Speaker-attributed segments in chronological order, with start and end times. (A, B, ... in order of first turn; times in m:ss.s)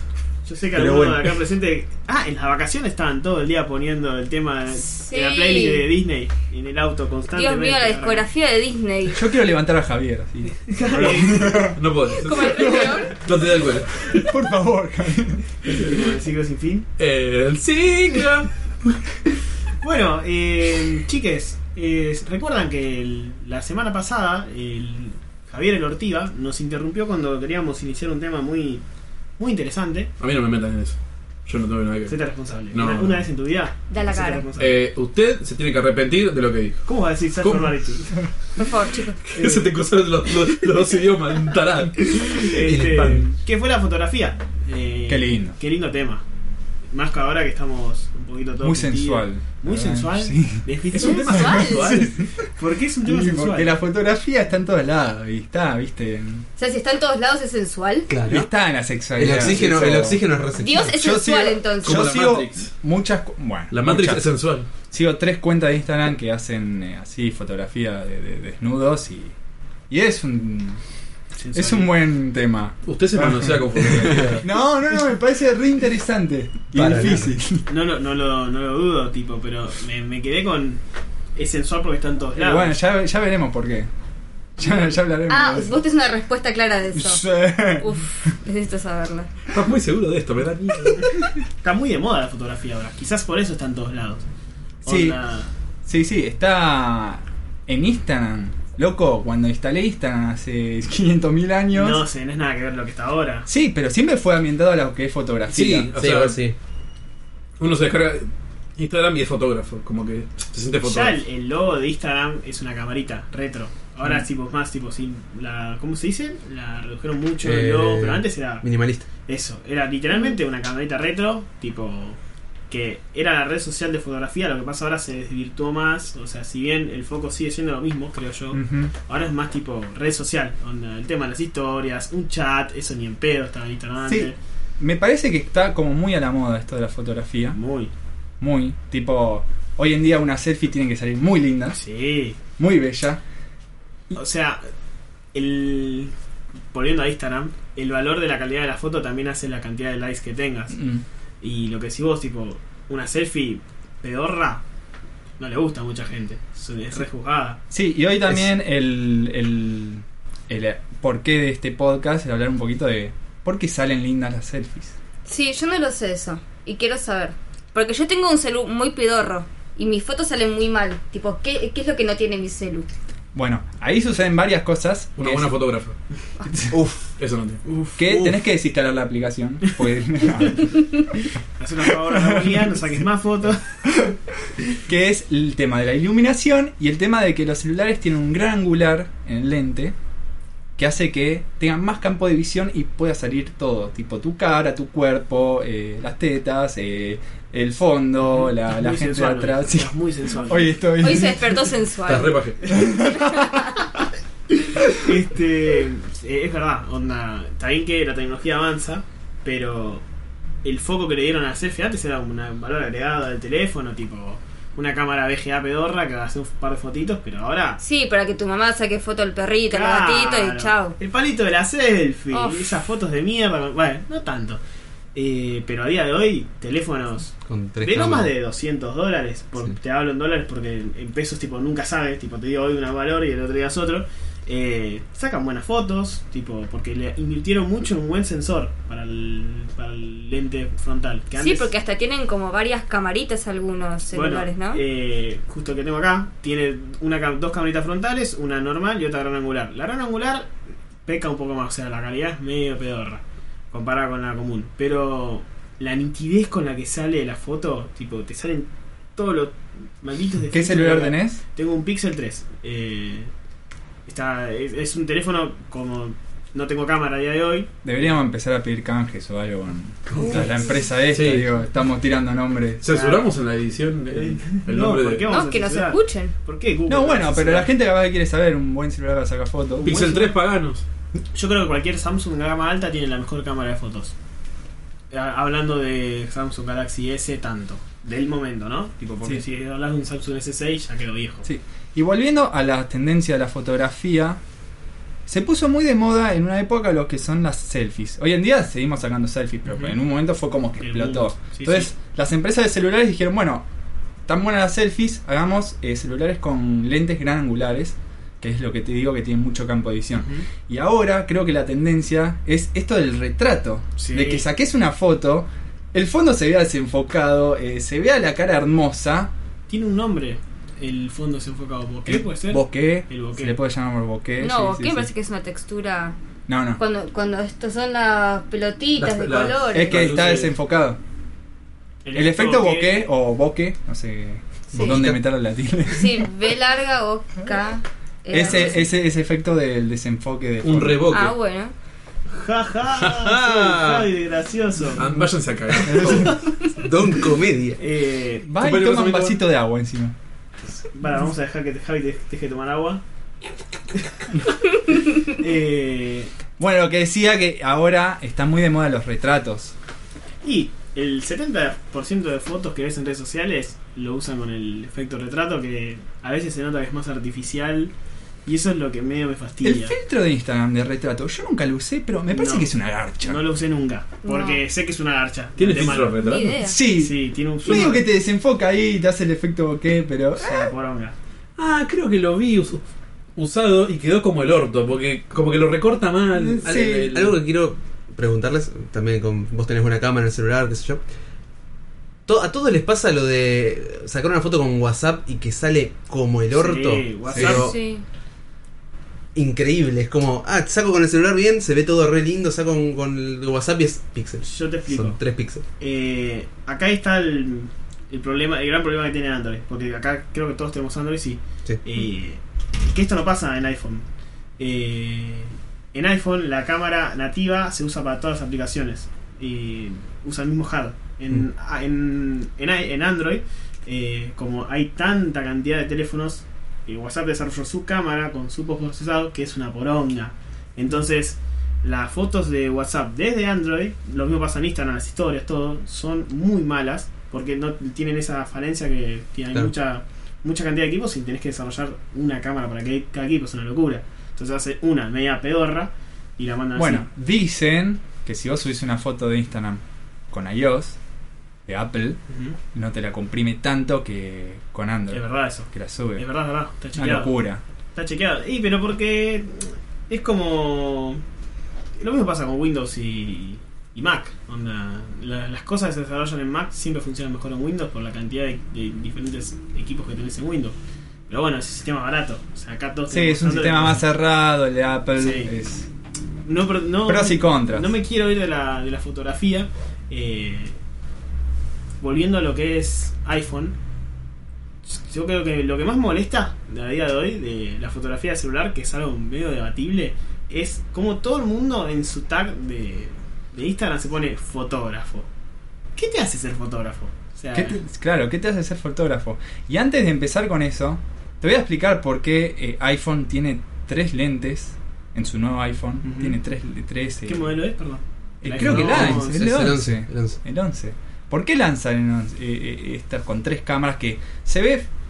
0:00.4-0:08.2 A
0:00.8-0:01.2 B
0:00.8-0:01.2 C
0:04.8-0:05.8 D
0:07.3-0:09.3 D
0:09.1-0:11.8 B
0:10.6-0:11.7 A
0:11.7-0:14.3 E
0:12.2-0:13.1 D
0:12.4-0:13.0 B
0:14.0-0:15.5 B
0:15.7-0:16.9 A
0:17.0-0:18.5 E
0:19.8-0:28.8 A
0:29.4-0:30.1 A
0:30.2-0:32.1 E
0:32.1-0:34.8 A
0:32.7-0:33.2 E
0:33.9-0:34.4 D
0:34.6-0:36.8 E
0:36.8-0:38.1 A
0:37.4-0:37.7 E
0:38.6-0:39.2 D
0:39.3-0:43.3 E
0:39.3-0:39.7 A
0:42.1-0:46.2 A
0:42.6-0:43.2 C
0:45.1-0:45.6 B
0:46.9-0:53.7 A
0:48.6-0:52.4 B
0:51.0-0:51.7 D
0:51.5-0:52.0 E
0:53.0-0:56.4 B
0:56.6-0:58.1 D
0:58.1-0:58.5 C
0:58.3-1:00.2 B
0:59.2-1:01.0 C
1:00.6-1:02.2 D
1:00.9-1:04.2 B
1:01.8-1:02.7 E
1:03.7-1:04.7 E
1:04.9-1:09.3 B
1:09.9-1:10.8 B
1:11.4-1:11.9 A
1:11.5-1:17.6 B
1:12.8-1:14.4 E
1:16.7-1:17.3 C
1:17.7-1:20.8 A
1:21.4-1:22.8 A
1:22.4-1:23.9 B
1:24.6-1:25.8 B
1:25.3-1:29.3 D
1:26.9-1:27.9 B
1:29.5-1:31.1 E
1:31.6-1:34.2 A
1:34.8-1:35.2 B
1:34.8-1:35.5 A
1:35.8-1:42.0 B
1:41.7-1:43.5 A
1:43.5-1:46.3 B
1:45.5-1:46.4 E
1:45.6-1:46.5 C
1:47.6-1:51.2 E
1:50.8-1:58.6 A
1:57.4-1:59.1 C
1:59.2-2:02.2 A
2:02.7-2:14.4 A
2:08.5-2:08.9 B
2:14.0-2:17.6 B
2:17.5-2:17.9 A
2:18.4-2:21.8 B
2:21.7-2:22.4 A
2:22.6-2:23.2 B
2:24.1-2:24.6 A
2:25.3-2:26.1 A
2:26.7-2:30.8 A
2:30.7-2:31.0 B
2:31.4-2:34.6 A
2:35.4-2:37.6 A
2:37.7-2:44.9 B
2:45.2-2:52.9 D
2:53.3-2:55.5 B
2:55.2-2:56.0 E
2:56.5-2:56.7 B
2:56.7-2:57.1 C
2:57.2-2:57.6 E
2:57.6-2:58.0 A
2:58.0-3:00.9 B
3:01.6-3:03.8 A
3:02.1-3:02.7 B
3:03.8-3:04.2 B
3:04.8-3:09.9 B
3:10.8-3:21.7 B
3:18.3-3:20.7 A
3:21.0-3:22.4 D
3:22.0-3:22.8 E
3:22.7-3:23.8 B
3:23.1-3:23.7 D
3:24.9-3:30.0 A
3:30.6-3:37.8 A
3:37.8-3:40.9 D
3:39.7-3:44.6 A
3:42.3-3:42.8 D
3:45.1-4:01.7 A
3:47.4-3:48.3 C
4:01.4-4:04.8 D
4:04.1-4:10.5 A
4:11.0-4:23.3 A
4:20.5-4:21.4 B
4:24.1-4:27.7 A
4:27.8-4:32.8 B
4:30.1-4:30.5 A
4:31.1-4:31.5 E
4:32.8-4:35.3 E
4:32.9-4:33.3 A
4:34.1-4:37.7 A
4:35.3-4:36.3 D
4:36.9-4:40.0 B
4:39.8-4:40.4 A
4:39.8-4:40.8 E
4:41.3-4:44.1 A
4:45.1-4:51.5 A
4:51.4-4:54.4 B
4:55.3-5:03.6 B
4:59.6-5:00.0 A
5:00.8-5:01.9 A
5:04.3-5:19.3 B
5:10.1-5:10.4 A
5:14.0-5:14.4 A
5:19.7-5:23.6 A
5:22.0-5:25.1 B
5:24.4-5:26.2 D
5:26.5-5:26.8 B
5:26.8-5:30.3 D
5:29.0-5:30.5 E
5:29.7-5:31.0 B
5:32.0-5:33.1 A
5:32.1-5:36.3 B
5:34.7-5:35.2 C
5:34.7-5:35.0 D
5:35.9-5:38.9 D
5:38.3-5:41.0 B
5:40.6-5:41.3 E
5:41.1-5:41.7 D
5:42.3-5:45.1 A
5:43.1-5:44.0 C
5:44.9-5:46.4 E
5:45.8-5:46.4 B
5:45.9-5:46.3 A
5:46.7-5:47.8 C
5:47.8-5:48.5 A
5:48.4-5:50.1 B
5:48.6-5:49.4 E
5:50.8-5:53.0 A
5:55.0-5:56.3 A
5:56.6-5:59.7 B
6:00.4-6:07.9 A
6:08.4-6:10.0 A
6:09.6-6:13.4 B
6:12.3-6:12.7 A
6:13.2-6:16.2 A
6:14.2-6:14.6 D
6:15.6-6:16.6 E
6:16.1-6:16.8 D
6:16.6-6:20.7 B
6:16.8-6:18.0 A
6:20.4-6:21.1 A
6:21.6-6:22.8 E
6:23.4-6:27.4 E
6:26.4-6:27.3 B
6:26.6-6:31.0 C
6:32.2-6:37.7 C
6:36.5-6:37.7 A
6:37.4-6:37.7 E
6:37.4-6:38.0 D
6:39.3-6:45.6 C
6:44.4-6:45.2 A
6:45.8-6:54.0 A
6:54.6-7:27.1 A
7:26.7-7:31.0 B
7:31.7-7:32.2 B
7:32.3-7:32.6 A
7:32.7-7:36.2 B
7:35.1-7:37.3 A
7:36.9-7:37.6 B
7:38.0-7:41.2 A
7:42.0-7:50.8 A
7:51.3-7:54.0 A
7:53.1-7:55.9 B
7:55.2-7:55.5 A
7:56.4-8:00.8 A
7:57.1-7:57.9 B
8:02.0-8:03.8 A
8:04.8-8:15.3 A
8:16.0-8:17.8 A
8:17.5-8:27.5 B
8:26.0-8:26.4 A
8:27.2-8:29.4 A
8:28.4-8:34.9 B
8:28.6-8:30.4 C